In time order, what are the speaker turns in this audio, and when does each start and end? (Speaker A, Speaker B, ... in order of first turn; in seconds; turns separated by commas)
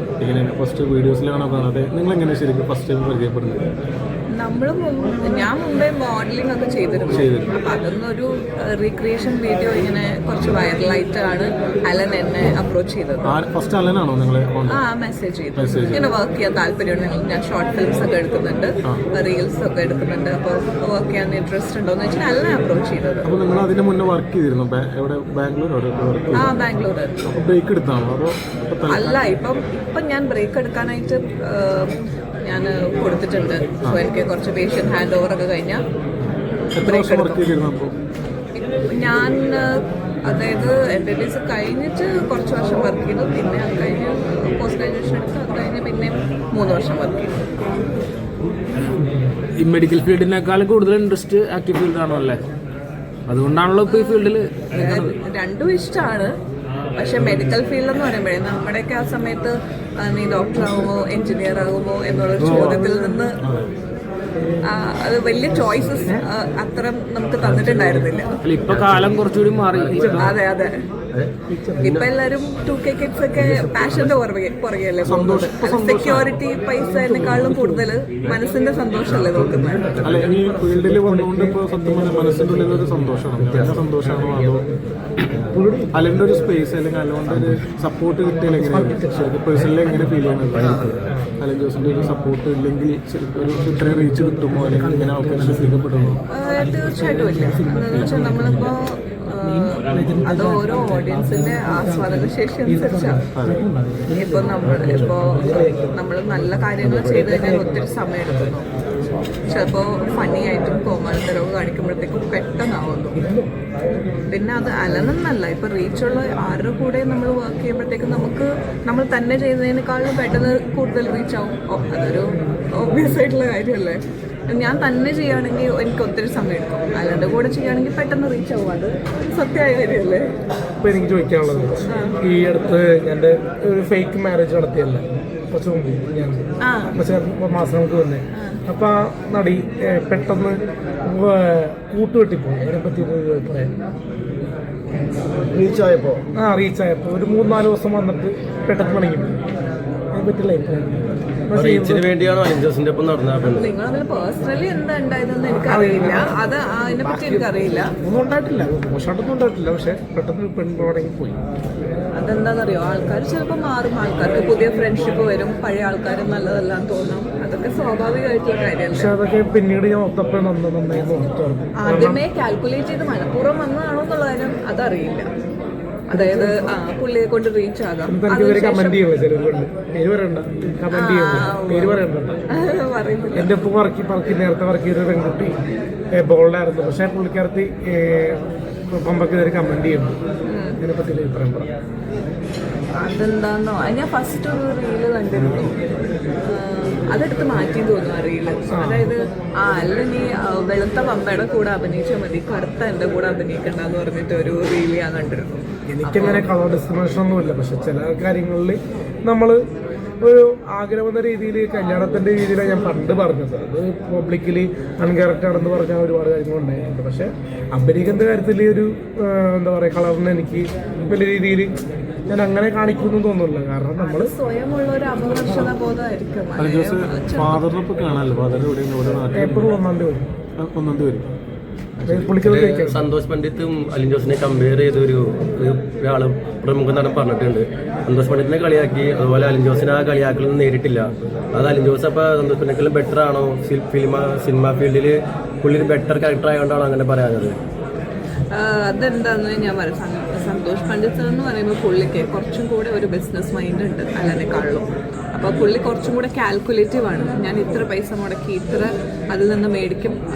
Speaker A: 0.2-3.7, Speaker B: 4.3-13.3, Speaker A: 7.1-7.5, Speaker A: 13.2-14.8, Speaker B: 14.7-23.3, Speaker A: 15.6-16.1, Speaker A: 23.2-26.6, Speaker B: 26.3-27.3, Speaker A: 27.3-29.2, Speaker B: 28.9-35.8, Speaker A: 36.7-37.9, Speaker B: 36.8-37.5, Speaker B: 38.6-47.4, Speaker C: 49.5-52.4, Speaker C: 53.3-55.1, Speaker B: 53.8-56.3, Speaker B: 57.0-63.4, Speaker D: 62.4-63.2, Speaker D: 64.3-64.7, Speaker B: 64.6-68.4, Speaker D: 65.6-66.2, Speaker C: 68.4-70.3, Speaker E: 68.7-70.2, Speaker D: 69.9-70.3, Speaker B: 70.2-70.7, Speaker D: 71.5-72.0, Speaker B: 71.8-80.3, Speaker A: 75.0-76.3, Speaker D: 76.9-77.8, Speaker C: 79.3-80.2, Speaker A: 80.0-84.7, Speaker D: 80.1-82.7, Speaker D: 85.5-86.0, Speaker A: 85.9-96.2, Speaker D: 88.7-89.2, Speaker E: 90.5-90.9, Speaker D: 91.0-91.3, Speaker C: 94.2-94.5, Speaker D: 94.6-95.7, Speaker C: 95.1-95.5, Speaker B: 96.3-103.3, Speaker D: 97.3-98.5, Speaker C: 98.0-98.4, Speaker C: 99.9-100.2, Speaker D: 99.9-100.2, Speaker D: 101.5-105.9, Speaker A: 103.3-103.7, Speaker B: 104.1-108.7, Speaker D: 106.8-107.8, Speaker B: 109.5-113.2, Speaker D: 113.1-113.5, Speaker B: 114.3-130.3, Speaker D: 130.8-143.7, Speaker B: 131.9-132.2, Speaker B: 136.6-136.9, Speaker B: 138.3-138.6, Speaker E: 145.5-146.2, Speaker D: 146.3-149.3, Speaker D: 150.1-152.1, Speaker E: 151.5-153.7, Speaker B: 153.5-157.9, Speaker D: 155.7-156.4, Speaker D: 157.0-161.4, Speaker B: 162.1-169.2, Speaker D: 168.9-172.2, Speaker B: 171.8-175.2, Speaker B: 176.1-179.0, Speaker D: 176.1-176.7, Speaker D: 178.1-182.4, Speaker B: 180.9-182.0, Speaker B: 182.5-183.5, Speaker D: 183.3-185.6, Speaker D: 186.1-190.1, Speaker B: 190.4-190.8, Speaker D: 190.8-191.7, Speaker B: 193.0-195.7, Speaker B: 196.5-206.4, Speaker D: 198.7-199.1, Speaker D: 205.9-209.6, Speaker D: 210.2-221.7, Speaker D: 222.3-224.3, Speaker B: 224.0-227.7, Speaker A: 226.6-229.7, Speaker D: 229.3-230.3, Speaker A: 230.6-231.2, Speaker E: 232.0-247.6, Speaker D: 232.1-233.1, Speaker B: 248.5-260.2